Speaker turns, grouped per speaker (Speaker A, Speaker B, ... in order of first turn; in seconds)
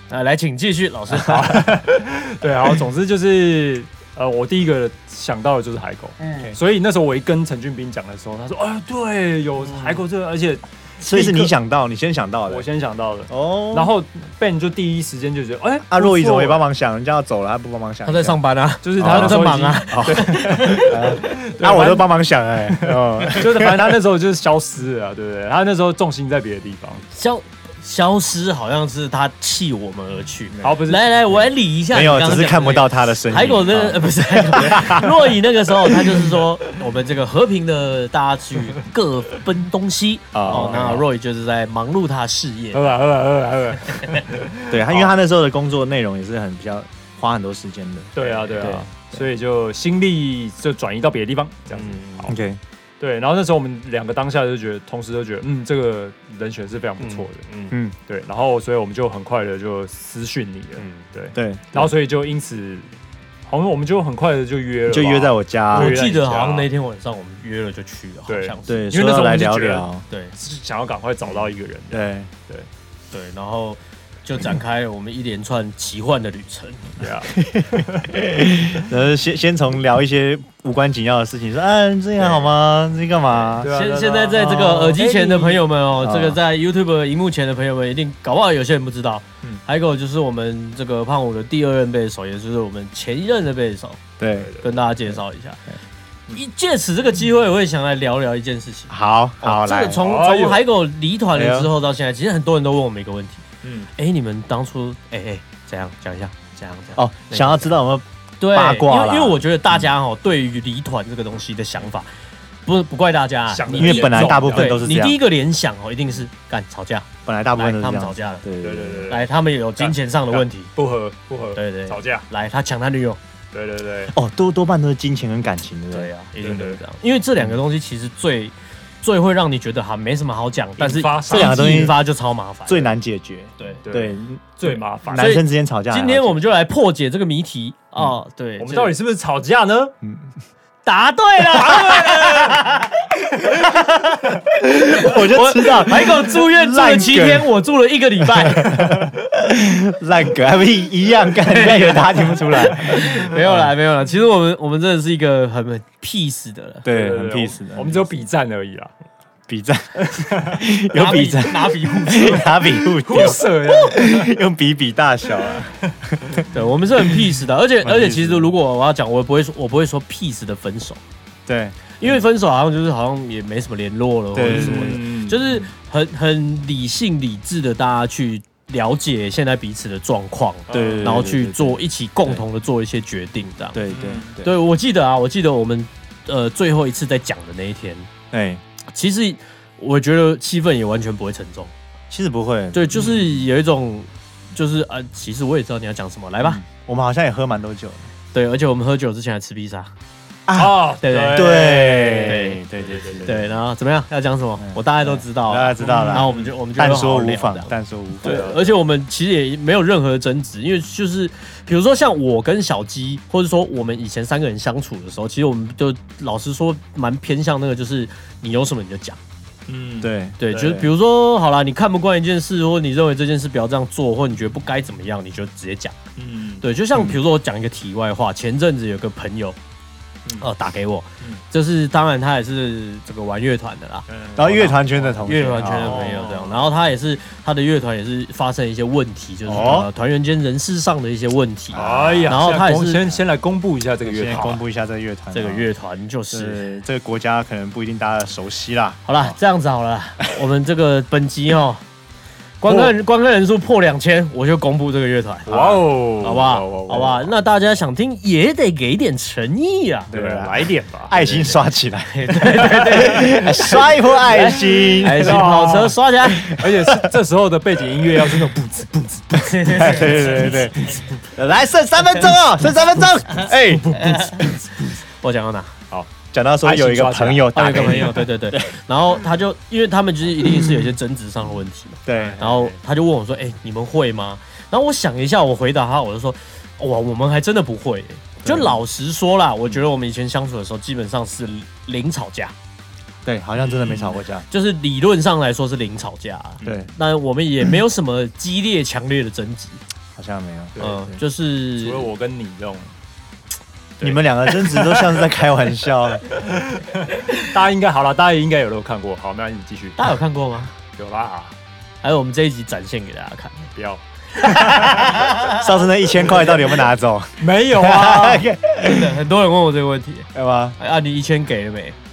Speaker A: 0.1-1.6, 18.0-21.1, 27.1-42.9, 51.7-52.3, 57.0-57.8, 60.8-61.0, 65.7-68.9, 73.1-76.9, 83.3-94.0, 94.6-95.6, 96.3-103.4, 104.0-107.8, 108.4-112.1, 112.7-118.5, 119.1-120.7, 121.5-123.2, 125.9-132.9, 135.2-138.9, 140.8-148.9, 151.4-156.8, 160.9-162.6, 166.5-171.0, 172.0-183.8, 184.4-188.1, 188.9-191.7, 192.7-196.6, 198.3-199.9, 201.0-202.6, 203.2-219.2, 220.4-226.0, 226.6-229.6, 230.4-243.0, 244.3-244.6, 245.3-246.7, 249.1-251.8, 252.6-255.6, 256.2-260.1, 262.1-266.5, 269.3-270.8, 273.9-274.4, 275.2-275.7, 277.5-292.5, 294.5-299.8, 300.8-302.1, 310.0-310.7, 312.0-313.7, 314.4-315.6, 318.8-322.0
Speaker B: 1.2-11.5, 12.5-16.6, 18.8-22.1, 22.7-27.0, 30.6-31.2, 40.5-41.0, 42.7-45.1, 48.1-52.4, 53.0-57.4, 58.1-62.9, 63.5-66.7, 68.3-72.7, 77.0-78.3, 83.6-85.7, 94.3-94.7, 100.0-100.7, 103.6-103.9, 113.5-114.8, 118.6-122.2, 123.5-124.1, 126.4-126.8, 130.8-131.9, 133.8-135.3, 138.6-139.9, 141.7-142.5, 156.9-158.9, 160.1-160.6, 163.0-164.3, 174.5-175.4, 180.7-181.3, 183.9-184.4, 192.9-193.2, 200.5-203.3, 205.8-206.5, 208.2-208.8, 219.7-220.8, 226.2-226.7, 234.1-235.2, 235.8-236.6, 239.5-239.8, 241.7-244.6, 252.6-252.9, 255.5-257.3, 260.1-261.6, 264.9-271.0, 273.6-274.1, 276.6-278.2, 282.1-282.8, 293.6-294.2, 296.6-296.9, 300.8-301.1, 301.7-302.9, 304.0-305.2, 306.3-310.1, 310.9-311.5, 313.8-315.3, 317.4-318.5
Speaker C: 11.0-12.7, 13.3-13.9, 15.9-18.4, 19.0-24.0, 30.5-30.8, 31.9-35.3, 35.9-36.3, 40.3-41.0, 44.7-49.2, 52.3-52.6, 61.3-61.9, 64.9-66.0, 68.7-70.0, 71.9-72.3, 77.3-83.7, 84.3-85.0, 86.0-86.4, 94.2-94.5, 98.9-100.0, 101.3-101.7, 107.0-109.9, 113.7-115.2, 117.2-119.1, 124.1-126.1, 131.3-132.0, 132.7-136.4, 140.0-140.3, 144.4-147.5, 148.2-153.7, 156.8-158.1, 159.5-166.4, 167.8-168.5, 171.5-172.2, 174.3-175.7, 180.7-182.4, 183.7-184.5, 188.3-188.6, 192.1-193.2, 196.4-198.1, 200.5-203.6, 204.6-208.5, 220.0-220.9, 234.3-236.2, 239.4-239.9, 241.7-242.5, 244.0-245.7, 246.3-249.3, 255.5-255.8, 260.1-265.4, 266.2-267.1, 269.5-274.9, 276.3-278.8, 280.4-280.9, 282.1-282.5, 288.4-288.8, 293.2-294.4, 296.6-296.9, 300.1-301.2, 304.0-306.3, 315.3-319.2, 320.3-320.8